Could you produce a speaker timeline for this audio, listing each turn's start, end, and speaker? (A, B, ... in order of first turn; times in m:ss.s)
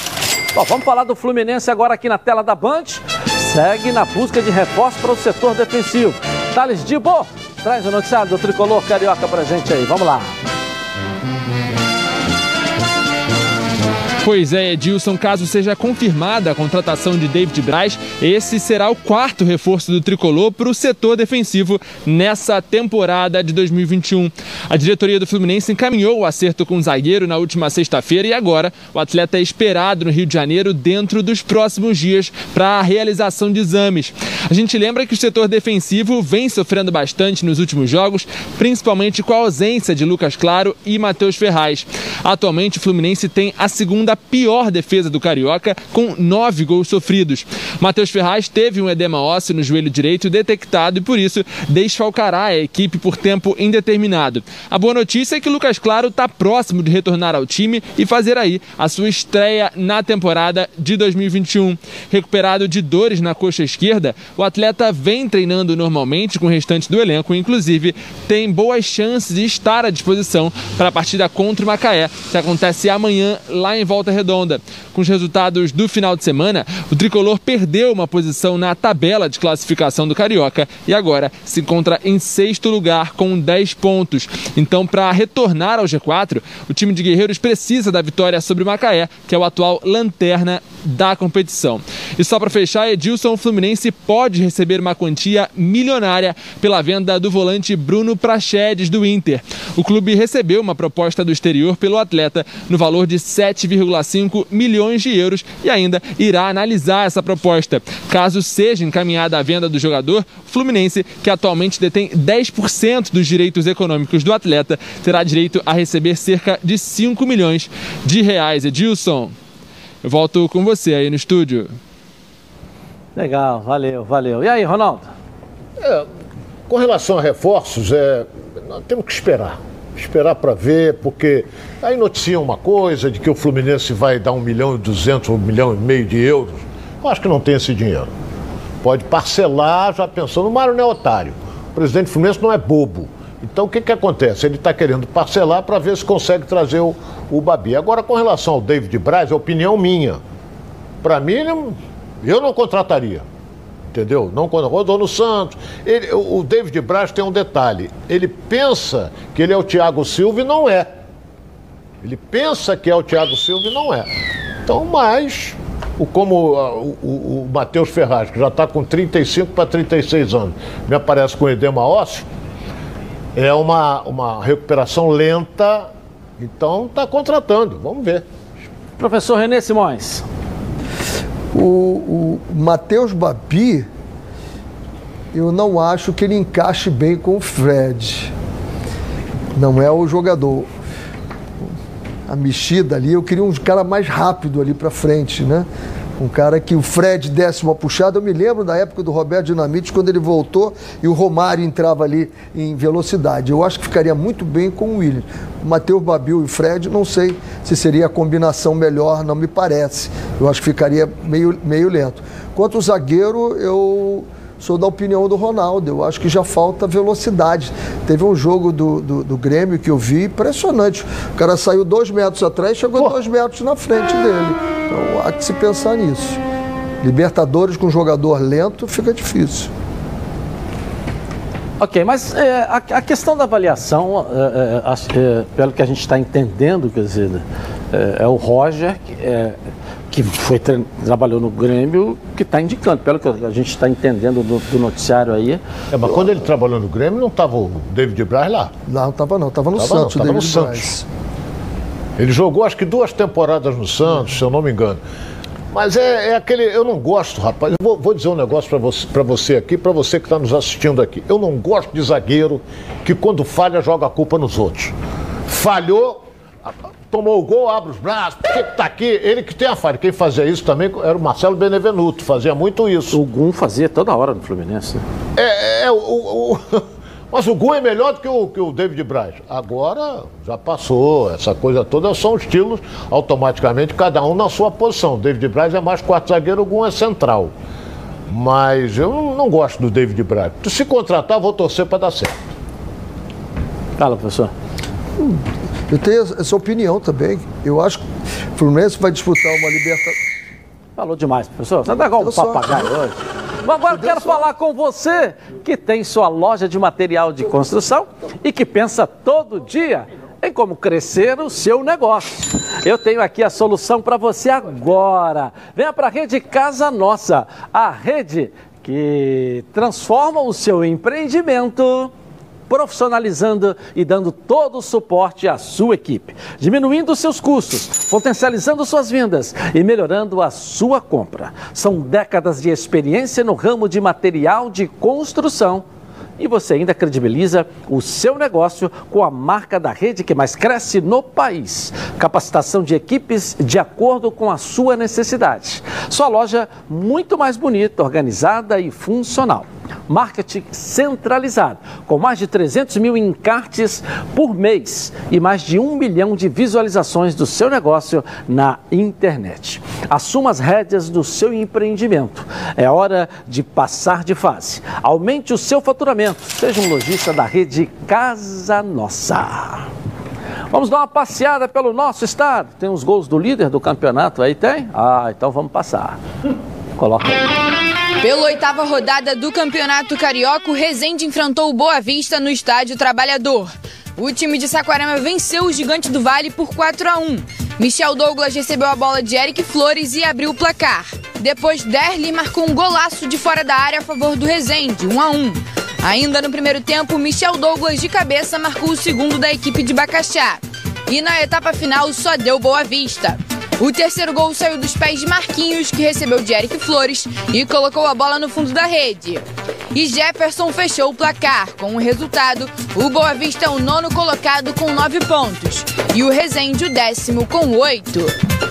0:00.5-0:10.3 A
0:14.2-1:59.3 B
2:00.0-2:01.7 B
2:03.2-2:05.1 A
2:05.8-2:06.1 C
2:06.7-2:18.1 C
2:18.8-2:30.2 C
2:31.0-2:33.2 C
2:33.9-2:40.9 C
2:42.0-2:44.1 C
2:44.6-2:52.2 C
2:53.4-2:55.9 C
2:56.4-2:58.2 C
2:59.0-3:00.2 A
3:01.5-3:03.9 D
3:05.3-3:08.3 D
3:09.5-3:10.7 D
3:12.3-3:15.7 D
3:16.2-3:46.4 D
3:47.0-3:49.7 D
3:51.8-3:59.5 A
4:00.1-4:06.1 A
4:05.9-4:08.7 C
4:08.9-4:11.0 D
4:09.8-4:10.9 C
4:12.2-4:15.0 C
4:15.7-4:25.0 C
4:25.5-4:26.2 C
4:27.1-4:33.2 C
4:33.1-4:35.0 A
4:35.4-4:47.5 C
4:48.3-4:52.3 C
4:54.0-4:54.5 A
4:55.2-4:58.0 D
4:58.5-5:00.2 D
5:01.0-5:22.1 A
5:02.2-5:02.9 D
5:03.9-5:04.4 D
5:22.7-5:35.8 A
5:36.4-6:09.9 A
6:10.7-6:16.2 A
6:17.0-6:17.5 A
6:18.2-6:58.3 E